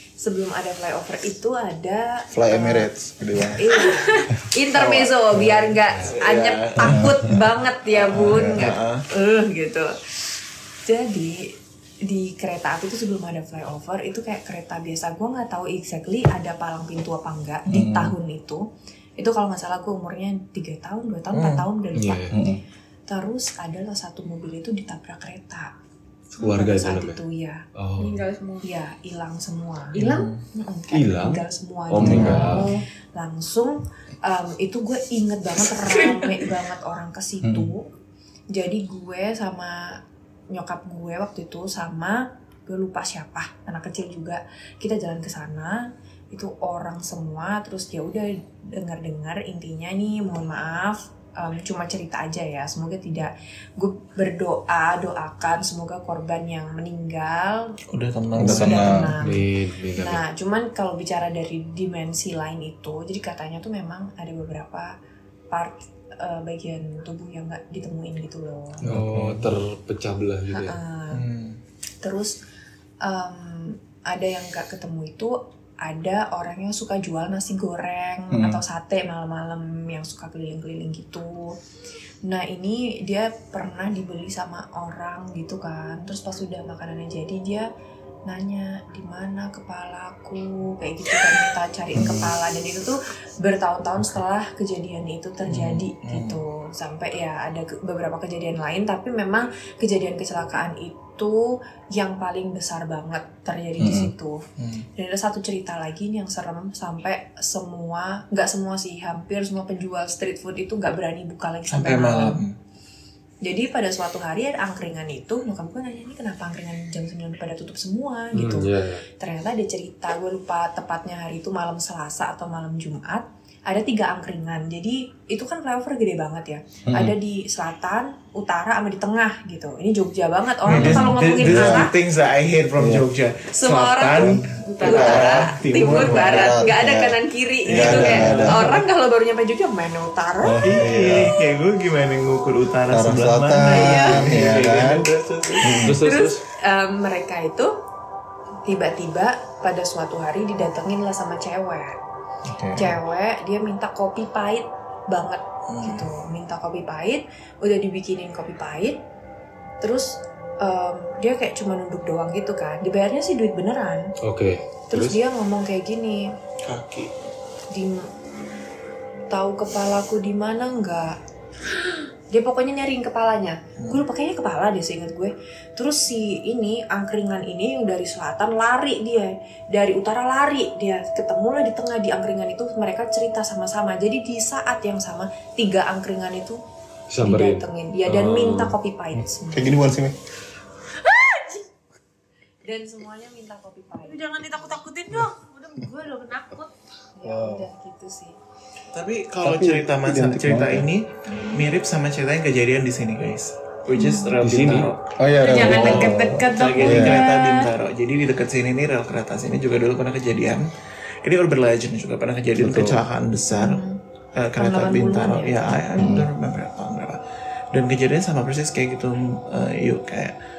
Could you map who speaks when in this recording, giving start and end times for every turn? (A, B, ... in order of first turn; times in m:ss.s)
0:00.2-0:02.9 A
0:02.3-0:03.9 B
0:03.5-0:10.0 A
0:04.7-0:07.1 C
0:06.8-0:07.4 B
0:08.0-0:09.0 C
0:08.1-0:08.8 B
0:10.8-0:18.6 A
0:17.7-0:18.2 B
0:19.2-0:22.4 A
0:21.3-0:21.7 C
0:22.0-0:22.4 D
0:22.3-0:22.6 B
0:23.1-0:25.7 A
0:26.4-0:27.2 D
0:26.4-0:27.6 A
0:27.8-0:28.2 D
0:28.0-0:28.7 E
0:28.6-0:37.8 A
0:29.9-0:30.4 C
0:30.9-0:32.7 D
0:32.0-0:32.8 B
0:32.3-0:32.8 E
0:35.8-0:36.5 E
0:37.4-0:37.7 B
0:38.5-0:40.0 A
0:40.5-0:57.8 A
0:57.9-0:59.1 C
0:58.4-0:59.2 B
0:58.4-1:04.9 A
0:59.2-1:00.2 D
1:05.5-1:08.8 A
1:08.8-1:10.8 D
1:08.8-1:09.5 B
1:10.5-1:11.2 A
1:11.1-1:11.6 C
1:12.0-1:12.4 A
1:13.0-1:21.5 A
1:18.3-1:18.6 B
1:22.2-1:27.7 A
1:28.3-1:44.4 A
1:32.0-1:32.4 B
1:35.5-1:36.4 C
1:43.8-1:44.1 B
1:44.6-1:44.9 C
1:45.0-1:52.4 A
1:51.7-1:52.6 C
1:53.4-2:11.9 A
1:58.3-1:59.0 D
2:06.9-2:07.2 B
2:10.6-2:16.6 C
2:10.7-2:11.9 B
2:12.8-2:13.1 B
2:13.5-2:20.6 A
2:14.1-2:18.7 B
2:14.7-2:15.3 E
2:17.7-2:18.8 C
2:20.4-2:21.4 B
2:20.6-2:25.9 C
2:22.9-2:25.1 B
2:23.6-2:24.2 A
2:25.6-2:26.0 B
2:25.6-2:27.7 A
2:25.8-2:26.4 D
2:28.7-2:32.0 A
2:32.5-2:33.0 B
2:32.7-2:39.0 A
2:35.7-2:36.1 C
2:39.8-2:44.1 A
2:44.2-2:45.2 D
2:44.9-2:46.3 A
2:46.6-2:47.1 C
2:47.7-2:48.1 A
2:49.3-2:51.2 A
2:52.3-3:06.6 A
3:07.1-3:08.8 D
3:07.2-3:09.8 A
3:09.2-3:10.2 B
3:11.0-3:11.6 E
3:12.6-3:14.2 A
3:14.1-3:16.7 E
3:17.2-3:18.4 A
3:17.2-3:17.7 B
3:18.9-3:30.7 C
3:19.4-3:20.9 B
3:21.3-3:21.6 A
3:24.0-3:24.3 A
3:24.4-3:24.9 D
3:25.2-3:27.2 B
3:25.4-3:27.7 E
3:31.2-3:33.8 C
3:32.6-3:33.0 B
3:33.5-3:34.0 A
3:34.4-3:37.2 C
3:34.6-3:35.8 A
3:36.0-3:36.3 B
3:37.7-3:40.4 C